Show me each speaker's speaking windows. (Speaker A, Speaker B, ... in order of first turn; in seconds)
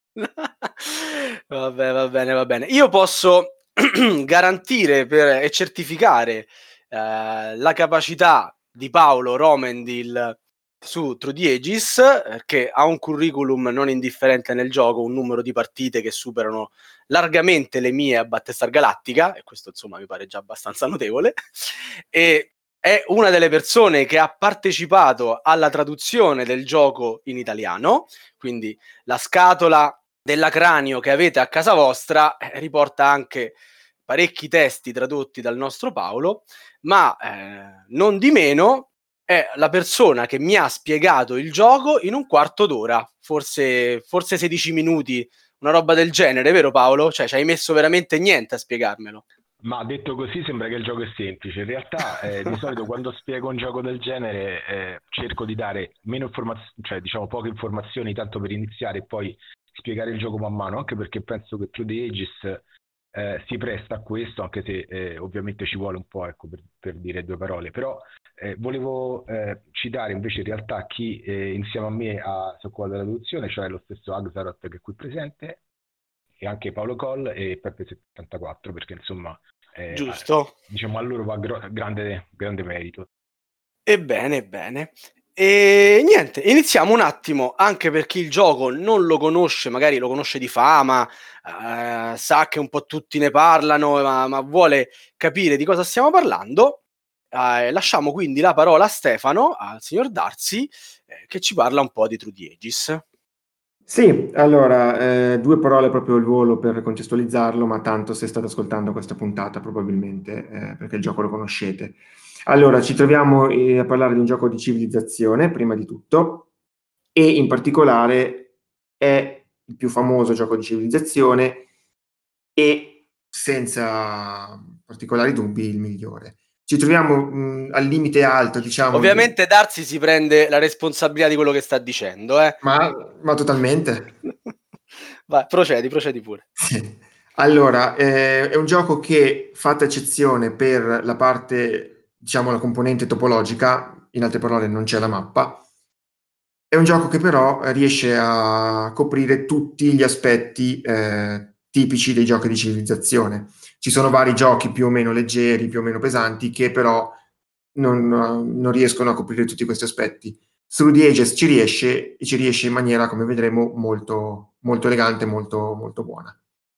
Speaker A: 0.2-33.6, 34.1-49.2, 79.9-80.5, 83.9-96.8, 97.3-103.0, 128.9-132.6, 135.3-136.4
Speaker B: 49.6-62.6, 63.1-75.6, 76.4-83.1
Speaker C: 103.9-116.5, 117.2-118.5, 119.0-121.7, 122.6-129.3, 132.6-134.1, 136.6-145.6, 146.7-157.2, 157.8-166.4